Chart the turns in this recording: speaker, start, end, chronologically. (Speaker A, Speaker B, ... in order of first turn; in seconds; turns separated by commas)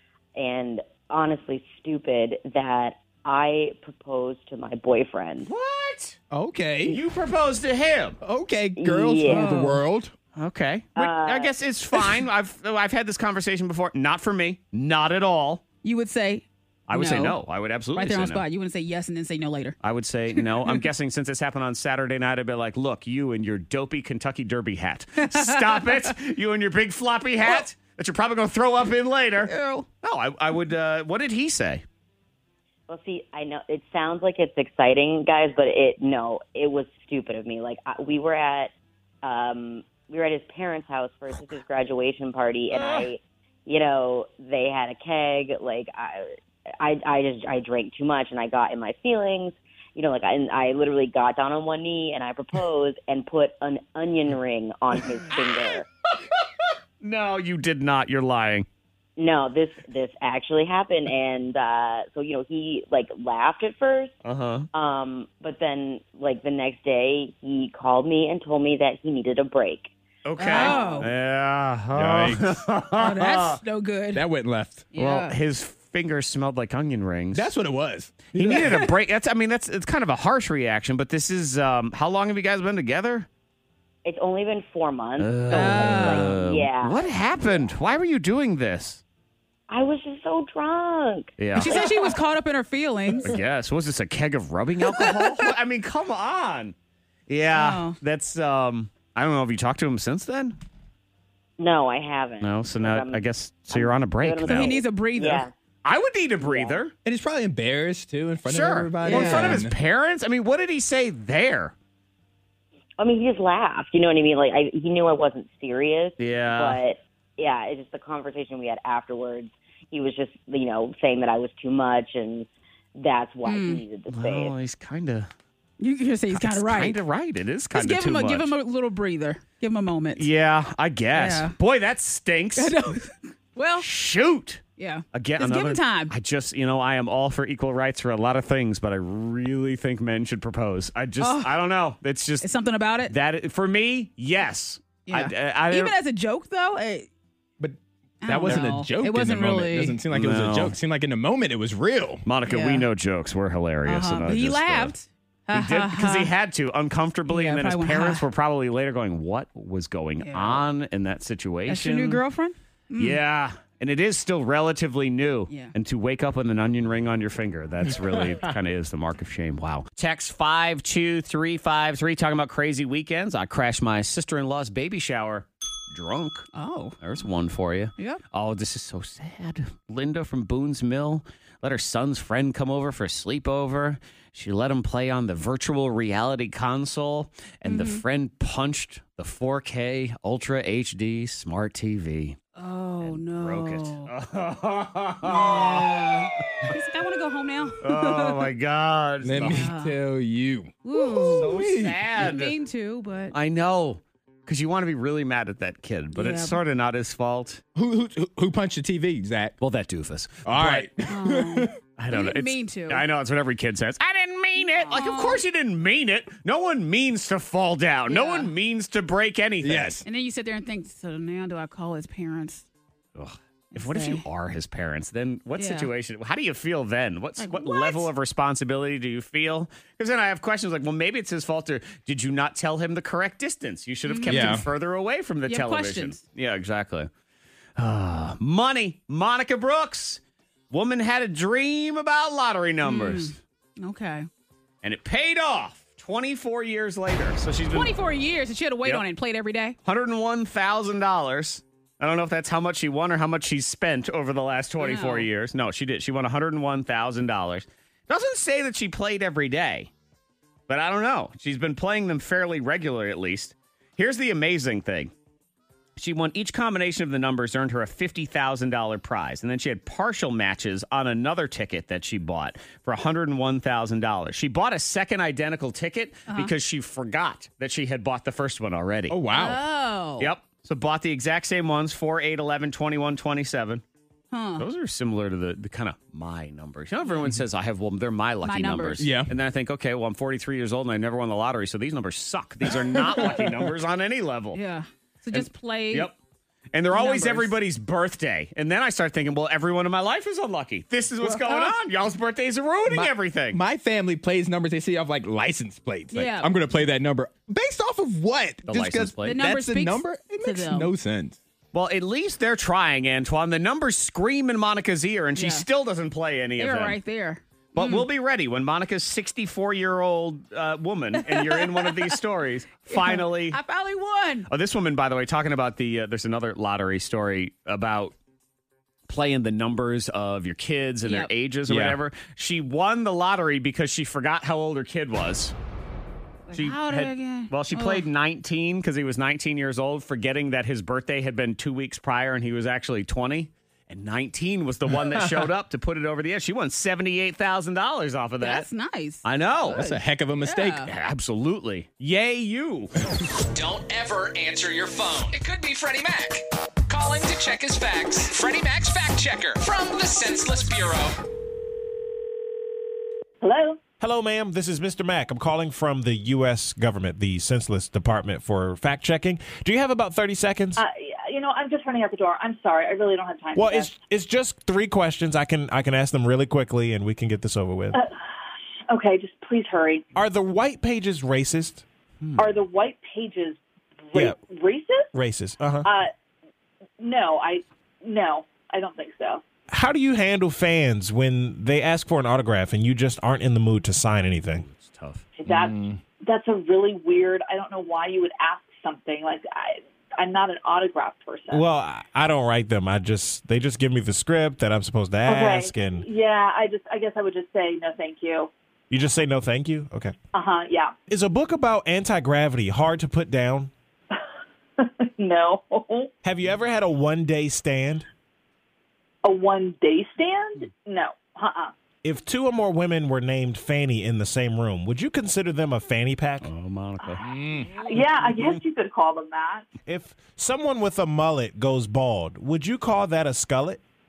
Speaker A: 0.3-5.5, Speaker B: 5.4-6.2, Speaker C: 6.3-7.0, Speaker B: 6.9-8.2, Speaker C: 8.2-10.1, Speaker A: 8.8-9.5, Speaker D: 9.3-9.8, Speaker B: 10.4-15.6, Speaker A: 11.0-11.5, Speaker D: 15.8-17.4, Speaker B: 16.9-18.4, Speaker D: 17.9-19.8, Speaker B: 19.8-31.8, Speaker D: 20.4-20.8, Speaker D: 25.2-26.1, Speaker D: 29.4-29.9, Speaker A: 32.9-38.7, Speaker A: 39.2-55.9, Speaker B: 42.7-43.0, Speaker B: 57.0-58.7, Speaker A: 59.2-64.1, Speaker B: 64.2-64.7, Speaker A: 64.7-69.9, Speaker B: 70.2-73.6, Speaker D: 70.4-71.1, Speaker A: 70.4-71.1, Speaker C: 71.9-72.6, Speaker D: 73.0-74.2, Speaker C: 74.1-74.9, Speaker D: 74.9-75.4, Speaker B: 75.0-77.5, Speaker C: 77.3-78.9, Speaker B: 78.3-83.3, Speaker D: 78.5-78.9, Speaker A: 84.0-87.7, Speaker B: 85.2-89.0, Speaker D: 85.5-86.4, Speaker A: 89.7-92.1, Speaker B: 91.4-91.8, Speaker D: 91.6-93.3, Speaker B: 93.2-96.8, Speaker D: 94.9-95.2, Speaker B: 97.3-100.6, Speaker D: 97.5-98.0, Speaker A: 101.6-105.5, Speaker B: 102.4-104.8, Speaker D: 104.5-105.5, Speaker B: 105.8-106.9, Speaker A: 106.4-106.8, Speaker C: 107.0-109.8, Speaker B: 108.5-111.8, Speaker D: 109.0-109.6, Speaker A: 113.0-124.5, Speaker B: 116.2-116.8, Speaker D: 123.5-123.8, Speaker B: 124.1-125.3, Speaker D: 125.8-127.0, Speaker B: 126.3-128.5, Speaker D: 127.7-130.3, Speaker B: 130.2-132.8, Speaker D: 131.1-131.6, Speaker D: 132.6-133.9, Speaker B: 133.8-134.6, Speaker D: 134.8-136.1, Speaker B: 135.1-142.5, Speaker D: 141.2-141.6, Speaker D: 142.4-143.1, Speaker B: 143.1-145.9, Speaker D: 145.1-147.1, Speaker C: 147.6-152.2, Speaker D: 148.2-150.0, Speaker B: 150.1-150.8, Speaker B: 152.2-154.9, Speaker D: 152.5-152.9, Speaker D: 153.9-156.3, Speaker B: 155.5-162.2, Speaker D: 157.3-158.2, Speaker D: 160.2-160.7, Speaker D: 161.7-163.2, Speaker B: 163.0-176.5, Speaker D: 176.5-177.0, Speaker B: 177.0-192.4, Speaker D: 187.7-188.0, Speaker D: 192.6-194.1, Speaker B: 193.0-196.7, Speaker D: 195.2-198.5, Speaker B: 197.8-199.7, Speaker C: 199.2-202.0, Speaker D: 199.4-200.0, Speaker D: 200.8-201.6, Speaker B: 201.3-202.6, Speaker D: 202.2-203.3, Speaker B: 203.3-207.6, Speaker D: 206.2-206.6, Speaker C: 207.8-209.6, Speaker B: 209.6-210.9, Speaker C: 210.4-211.7, Speaker D: 211.1-213.1, Speaker B: 212.0-220.0, Speaker D: 214.8-215.4, Speaker D: 218.1-218.5, Speaker C: 219.6-220.1, Speaker D: 220.1-222.7, Speaker B: 223.2-237.1, Speaker D: 223.7-224.2, Speaker D: 225.6-225.9, Speaker D: 227.4-228.1, Speaker D: 234.1-234.6, Speaker C: 234.3-234.7, Speaker D: 235.5-236.2, Speaker B: 237.8-243.4, Speaker D: 242.8-244.3, Speaker B: 244.8-247.9, Speaker D: 247.7-249.8, Speaker B: 249.8-259.9, Speaker D: 254.8-255.3, Speaker B: 260.7-265.1, Speaker B: 266.0-279.2, Speaker C: 279.1-279.6, Speaker D: 279.3-280.3, Speaker B: 280.2-283.8, Speaker D: 284.3-284.7, Speaker B: 284.6-294.6, Speaker D: 287.1-287.3, Speaker D: 288.4-289.1, Speaker C: 289.0-289.3, Speaker C: 292.9-293.6, Speaker D: 294.5-296.1, Speaker B: 295.3-296.2, Speaker B: 296.7-303.6, Speaker D: 296.9-297.5, Speaker D: 301.3-301.7, Speaker C: 302.9-311.4, Speaker D: 306.1-306.5, Speaker B: 308.7-309.4, Speaker D: 309.2-310.9, Speaker B: 311.7-317.0, Speaker D: 315.4-315.7, Speaker D: 316.6-318.1, Speaker B: 317.7-323.6, Speaker D: 321.2-322.2, Speaker D: 322.9-324.5, Speaker B: 324.5-328.1, Speaker B: 329.1-335.5, Speaker D: 331.0-331.3, Speaker C: 331.7-332.0, Speaker D: 336.5-338.1, Speaker B: 336.5-348.7, Speaker D: 348.4-350.9, Speaker B: 349.2-349.8, Speaker C: 349.7-350.9, Speaker B: 350.9-352.9, Speaker E: 353.5-361.2, Speaker F: 363.4-363.8, Speaker G: 364.0-370.8, Speaker F: 370.8-373.9, Speaker G: 373.6-378.0, Speaker F: 377.9-378.2, Speaker F: 378.9-380.1, Speaker G: 380.1-382.6, Speaker F: 382.4-383.6, Speaker F: 384.1-385.1, Speaker G: 384.1-384.4, Speaker G: 385.1-385.9, Speaker F: 385.8-386.1, Speaker F: 387.0-389.4, Speaker G: 389.7-394.7, Speaker B: 394.6-395.3, Speaker F: 395.4-401.6, Speaker C: 395.5-396.0, Speaker G: 401.5-406.1, Speaker F: 405.3-408.5, Speaker G: 408.9-410.1, Speaker F: 410.3-410.9, Speaker G: 411.1-413.7, Speaker F: 414.8-416.1, Speaker G: 416.2-418.1, Speaker F: 419.2-421.7, Speaker G: 422.0-426.5, Speaker B: 426.4-427.9, Speaker C: 427.2-427.8, Speaker F: 427.9-429.7, Speaker G: 429.9-433.8